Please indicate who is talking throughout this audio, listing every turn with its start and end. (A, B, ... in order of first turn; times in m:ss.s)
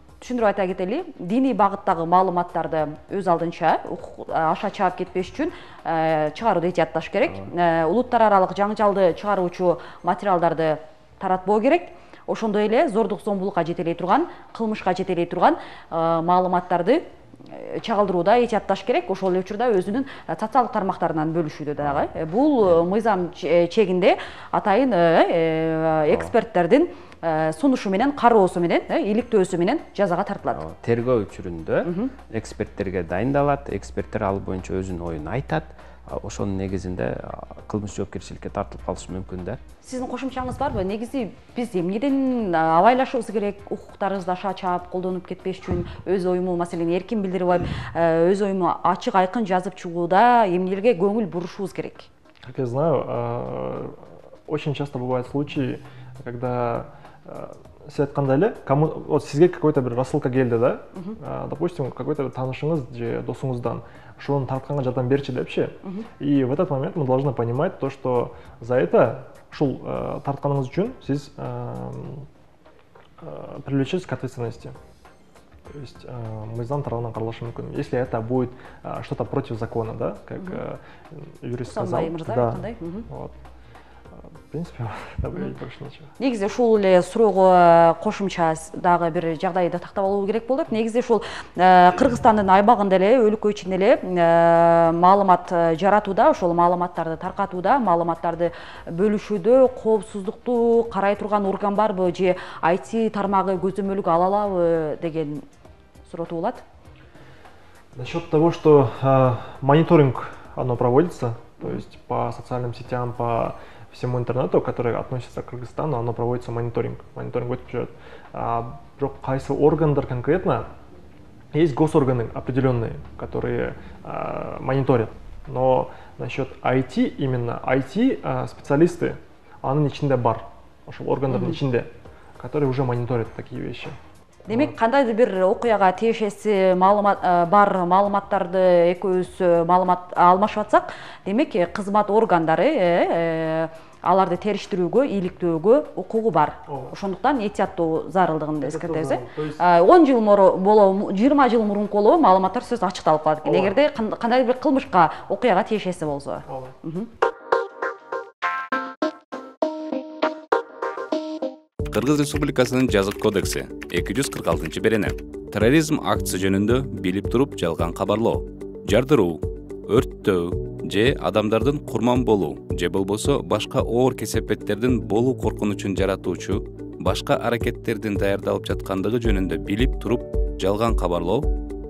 0:00.2-0:30.6 A
0:21.8-0:22.1 B
0:30.5-0:39.6 B
0:31.8-0:32.1 A
0:39.8-0:52.1 A
0:52.4-1:12.3 C
1:13.2-1:14.8 C
1:15.7-1:23.4 C
1:21.7-1:23.1 A
1:24.1-1:26.1 C
1:26.2-1:45.4 A
1:46.0-1:46.6 A
1:48.0-2:00.7 C
2:01.5-2:14.0 C
2:11.3-2:11.6 A
2:14.5-2:37.1 A
2:14.5-2:14.7 C
2:26.7-2:26.9 C
2:28.6-2:29.6 C
2:33.4-2:33.8 C
2:36.5-2:36.8 C
2:41.9-3:01.5 D